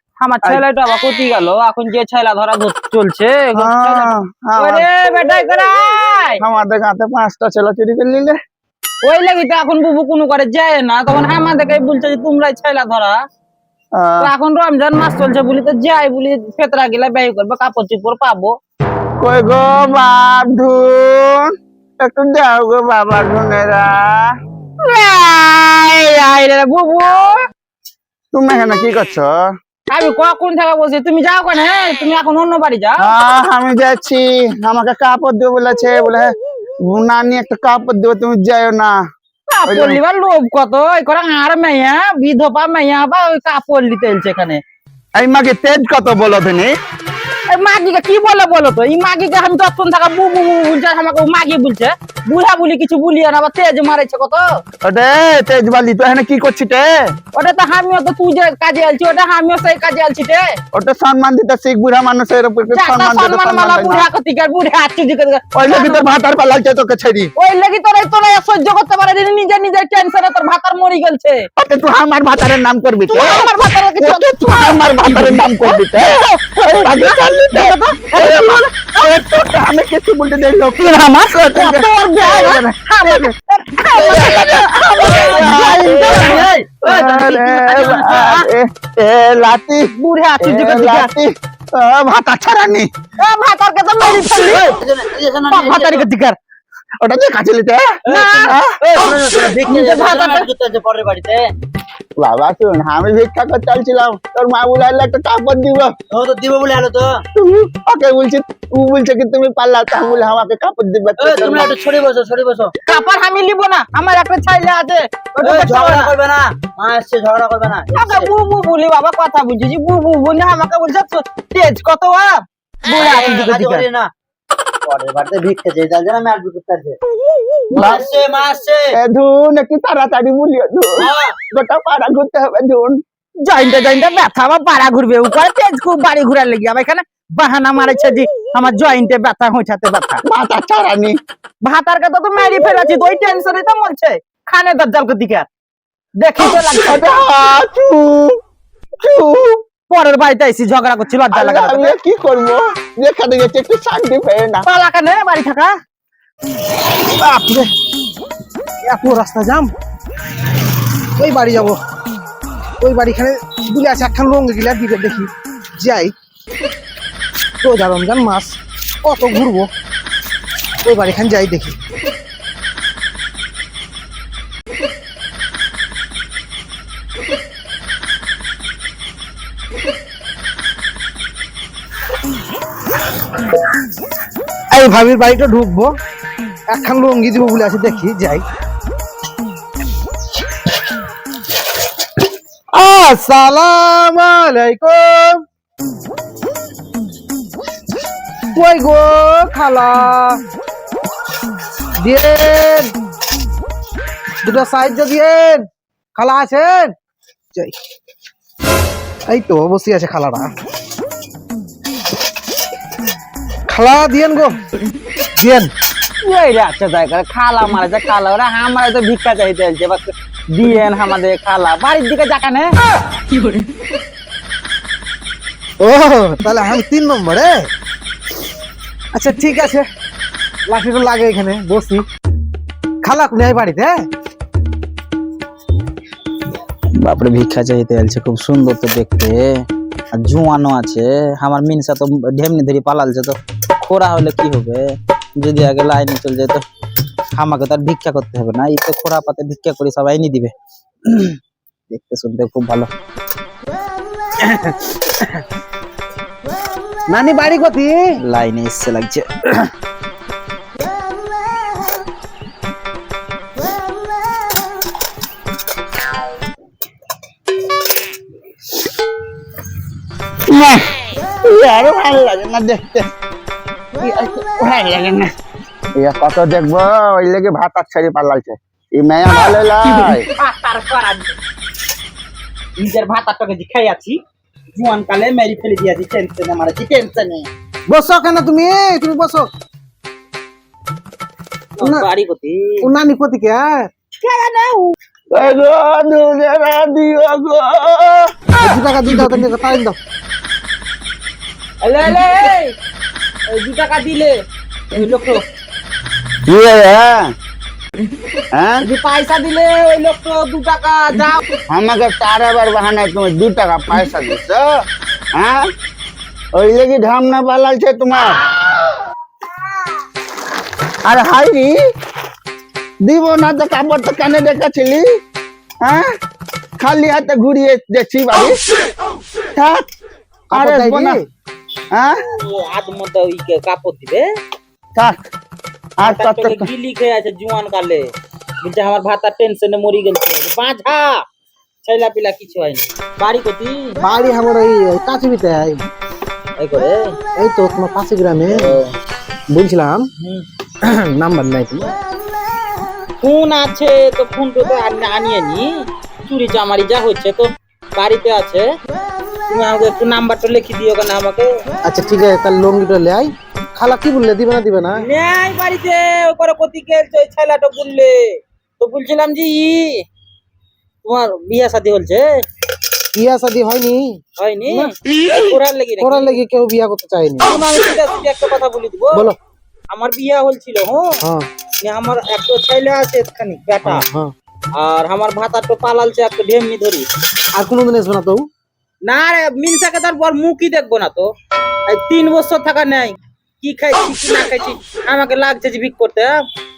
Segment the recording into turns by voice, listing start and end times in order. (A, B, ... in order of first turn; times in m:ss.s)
0:00.2-0:06.4 A
0:03.6-0:04.9 B
0:06.4-0:08.4 B
0:09.0-0:13.2 A
0:14.0-0:14.3 B
0:14.2-0:18.6 A
0:19.2-0:24.3 B
0:24.8-0:27.5 A
0:28.3-0:29.4 B
0:29.9-0:33.0 A
0:33.0-0:36.3 B
0:36.8-0:39.0 B
0:39.5-0:44.6 A
0:39.7-0:40.0 B
0:45.2-0:46.7 B
0:47.5-0:54.5 A
0:54.8-0:57.1 B
0:57.3-1:00.6 A
1:00.7-1:04.1 B
1:02.7-1:06.0 A
1:05.6-1:07.3 B
1:07.4-1:11.5 A
1:11.6-1:13.5 B
1:13.1-1:15.7 A
1:14.0-1:23.3 B
1:16.9-1:18.6 A
1:21.5-1:28.5 A
1:23.9-1:32.9 B
1:25.0-1:26.7 C
1:30.0-1:31.1 A
1:33.2-1:34.8 A
1:34.4-1:36.0 C
1:35.5-1:36.4 A
1:37.0-1:38.8 B
1:38.1-1:41.5 C
1:38.1-1:38.5 A
1:39.7-1:40.5 A
1:42.2-1:45.9 B
1:46.1-1:47.2 C
1:47.4-1:51.7 B
1:51.2-1:52.7 C
1:52.9-1:56.1 A
1:55.4-1:58.3 C
1:57.9-2:03.9 A
2:02.9-2:04.1 C
2:04.8-2:07.0 C
2:07.7-2:09.0 C
2:07.8-2:08.0 B
2:08.9-2:13.0 B
2:11.0-2:11.4 C
2:13.4-2:20.2 A
2:20.2-2:21.2 B
2:21.6-2:25.5 A
2:26.2-2:27.1 A
2:26.9-2:28.4 B
2:29.0-2:29.6 B
2:29.9-2:32.0 A
2:31.3-2:34.7 B
2:34.7-2:35.8 A
2:37.1-2:37.7 D
2:38.8-2:39.7 D
2:41.2-2:41.8 D
2:42.8-2:46.1 D
2:47.6-2:49.7 D
2:50.8-2:51.8 D
3:04.7-3:06.0 D
3:06.7-3:08.4 D
3:12.7-3:15.4 D
3:18.5-3:20.4 D
3:22.0-3:22.9 D
3:24.4-3:26.9 D
3:29.3-3:30.5 D
3:33.7-3:34.6 D
3:35.4-3:35.7 D
3:36.2-3:42.7 A
3:45.8-3:47.7 D
3:49.1-3:49.9 D
3:50.7-3:52.0 D
3:53.0-3:54.0 D
3:57.0-3:59.5 A
4:00.1-4:04.9 A
4:05.4-4:06.6 A
4:07.4-4:10.5 A
4:11.1-4:11.4 A
4:11.9-4:12.9 A
4:14.4-4:15.4 D
4:17.1-4:18.2 D
4:18.2-4:19.7 A
4:30.5-4:33.1 B
4:34.0-4:35.3 B
4:36.0-4:40.3 B
4:40.4-4:41.4 A
4:42.8-4:44.2 A
4:44.7-4:47.5 A
4:47.9-4:49.5 D
4:51.8-4:52.9 A
4:51.8-4:52.1 D
4:52.8-4:53.9 D
4:54.2-4:54.9 A
4:55.3-4:58.3 B
4:58.6-5:00.0 D
5:01.8-5:02.8 A
5:03.5-5:04.3 A
5:04.9-5:05.4 A
5:06.5-5:07.3 B
5:08.5-5:08.9 B
5:08.8-5:11.4 A
5:11.7-5:14.6 B
5:15.4-5:15.7 B
5:16.6-5:18.4 B
5:21.0-5:21.8 B
5:23.0-5:25.1 B
5:26.8-5:28.6 B
5:29.6-5:29.8 B
5:30.5-5:31.2 B
5:30.5-5:31.2 D
5:32.3-5:34.3 A
5:36.0-5:36.7 B
5:36.0-5:38.1 A
5:38.6-5:41.2 A
5:41.8-5:44.0 A
5:44.0-5:45.8 D
5:46.6-5:47.2 A
5:47.4-5:48.7 D
5:48.5-5:48.9 A
5:49.5-5:50.1 D
5:50.8-5:52.0 D
5:53.2-5:58.7 A
5:59.5-6:01.5 A
6:01.8-6:05.0 D
6:05.0-6:10.0 A
6:11.0-6:12.4 A
6:13.1-6:14.9 D
6:14.4-6:16.4 A
6:16.0-6:17.5 D
6:17.4-6:19.3 A
6:19.9-6:21.2 A
6:21.2-6:21.5 D
6:21.8-6:24.1 A
6:23.8-6:24.3 D
6:24.8-6:27.1 A
6:27.6-6:28.5 D
6:29.0-6:31.3 A
6:31.9-6:36.4 A